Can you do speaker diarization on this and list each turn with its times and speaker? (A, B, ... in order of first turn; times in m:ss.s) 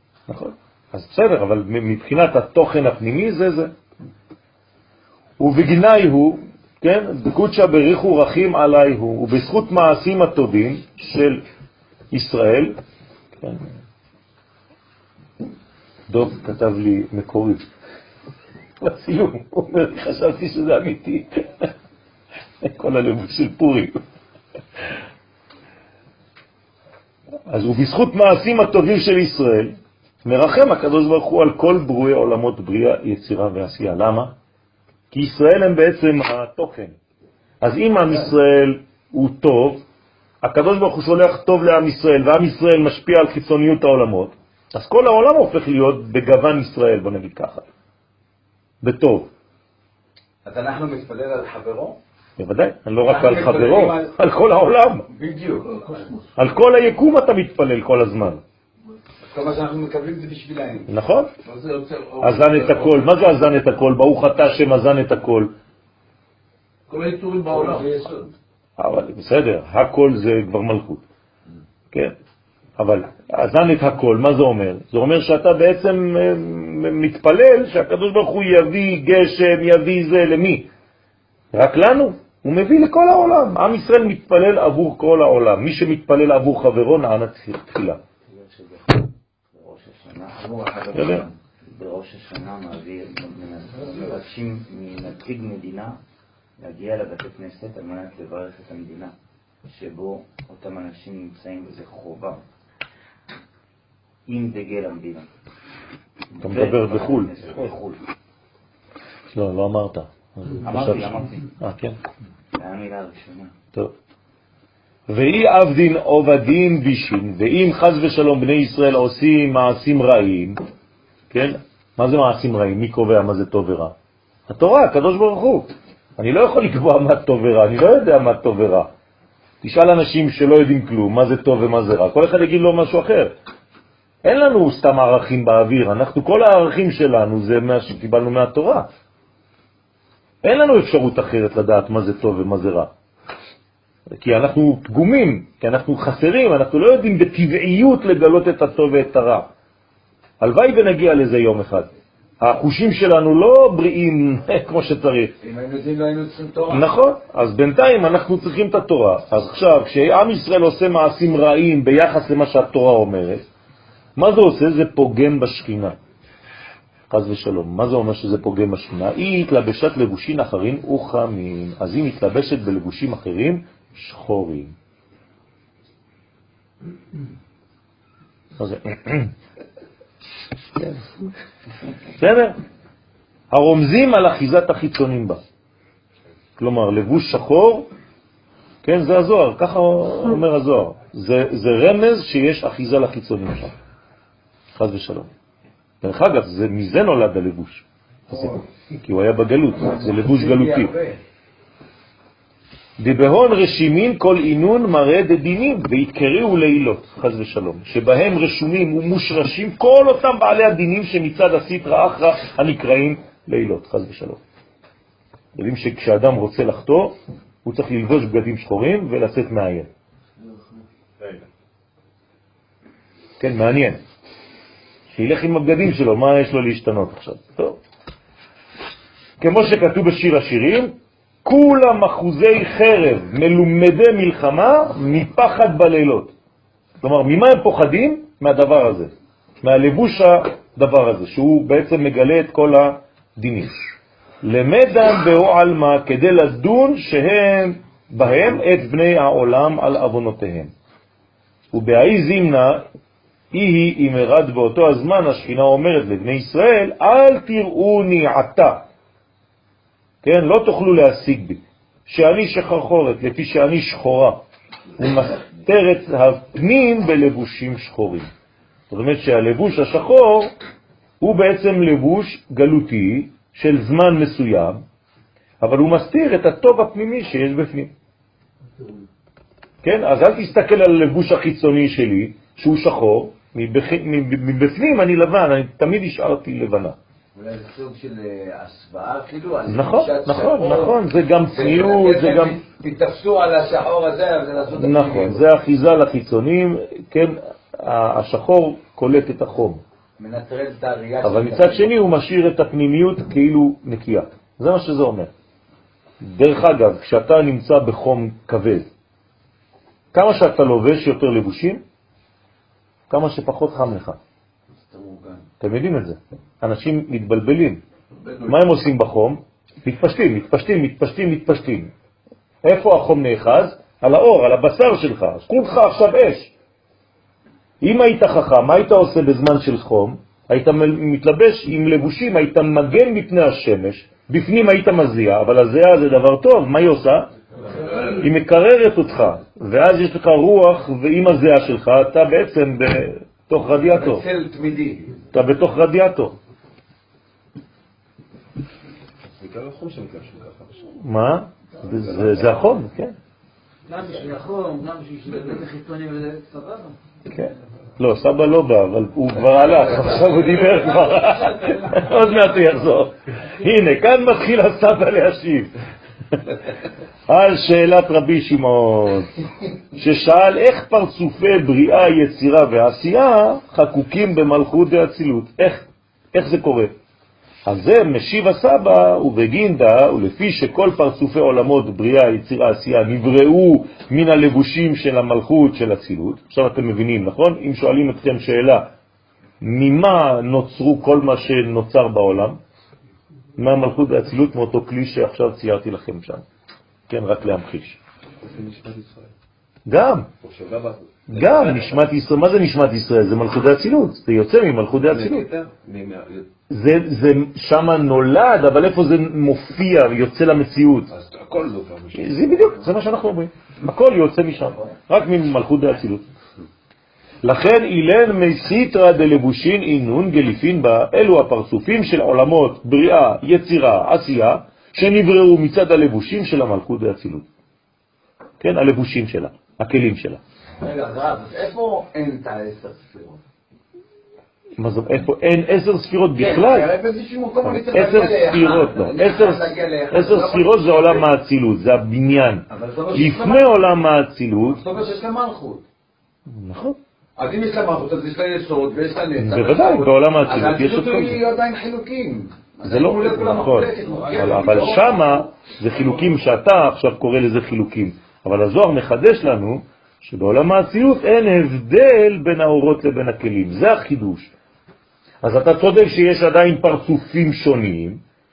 0:00.3-0:03.7 A
0:05.4-0:11.4 A
0:12.1-0:12.8 A
0:13.4-0:13.7 A
0:16.1-0:17.6 A
0:18.8-0:21.7 A
0:22.6-0:24.0 A
0:27.5-0:34.3 A
0:35.1-0:37.0 A
0:37.6-0:39.8 A
0:40.4-0:47.7 A
0:48.8-0:49.3 A
0:50.4-0:52.0 B
0:52.4-0:55.1 A
0:53.0-0:54.2 B
0:55.1-0:56.0 B
0:55.8-0:56.2 C
0:56.4-0:58.4 A
0:59.3-1:00.9 B
1:00.9-1:01.3 A
1:01.4-1:03.0 C
1:02.2-1:05.5 A
1:06.9-1:08.3 C
1:08.8-1:11.0 A
1:12.8-1:20.7 A
1:21.5-1:28.0 A
1:28.3-1:36.0 D
1:30.9-1:31.2 A
1:36.6-1:39.1 D
1:39.7-1:42.4 D
1:44.3-1:45.3 D
1:46.4-1:48.0 D
1:46.4-1:47.4 A
1:49.3-1:52.0 A
1:50.6-1:51.5 D
1:52.6-1:53.5 D
1:55.1-2:00.6 A
2:01.3-2:03.9 A
2:04.5-2:08.9 A
2:09.6-2:13.3 A
2:14.2-2:18.9 A
2:20.4-2:22.9 A
2:24.1-2:29.5 A
2:30.4-2:35.3 A
2:35.4-2:36.9 B
2:36.7-2:43.4 A
2:44.2-2:46.0 A
2:47.1-2:54.8 A
2:58.6-2:59.3 A
3:00.8-3:01.0 A
3:02.2-3:02.6 A
3:03.5-3:05.4 A
3:06.6-3:07.9 A
3:08.8-3:13.8 A
3:14.8-3:15.3 A
3:16.0-3:20.9 A
3:19.9-3:21.2 B
3:23.0-3:34.4 A
3:35.6-3:39.9 A
3:43.4-3:44.0 A
3:45.1-3:47.8 A
3:49.4-3:56.3 A
3:57.0-3:59.1 A
3:59.6-4:03.8 A
4:04.4-4:10.7 A
4:11.7-4:12.8 A
4:13.5-4:18.8 A
4:20.2-4:24.4 A
4:25.0-4:28.3 A
4:28.9-4:30.5 A
4:31.2-4:34.8 A
4:35.6-4:37.9 A
4:39.8-4:47.0 A
4:47.3-4:55.4 B
4:49.7-4:52.6 A
4:54.8-4:59.8 A
5:00.2-5:01.9 B
5:01.2-5:05.3 A
5:06.2-5:08.9 A
5:10.1-5:11.8 A
5:13.1-5:14.2 A
5:14.8-5:15.5 B
5:15.6-5:17.8 A
5:18.2-5:18.5 C
5:18.4-5:21.9 A
5:22.6-5:26.5 A
5:27.8-5:37.3 A
5:37.9-5:44.2 A
5:43.7-5:45.2 B
5:45.3-5:46.4 A
5:49.4-5:50.8 C
5:51.0-5:53.2 A
5:51.9-5:52.6 C
5:53.9-5:57.0 E
5:57.3-6:05.7 A
6:00.7-6:02.1 E
6:07.3-6:09.3 A
6:09.9-6:16.9 A
6:17.7-6:28.9 A
6:29.6-6:32.6 A
6:33.6-6:36.4 A
6:37.1-6:38.0 A
6:38.4-6:39.3 C
6:39.9-6:40.3 A
6:40.4-6:42.0 C
6:41.3-6:45.5 A
6:45.0-6:46.5 C
6:46.7-6:51.1 A
6:51.1-6:52.7 C
6:52.1-6:56.2 A
6:57.4-7:07.4 A
7:08.6-7:10.4 A
7:10.8-7:13.3 B
7:14.8-7:16.9 A
7:16.4-7:21.3 B
7:17.6-7:24.8 A
7:22.7-7:23.8 B
7:24.7-7:25.8 B
7:26.5-7:27.0 A
7:27.4-7:35.5 B
7:29.4-7:31.4 A
7:32.8-7:44.5 A
7:34.2-7:35.0 C
7:45.4-7:48.2 A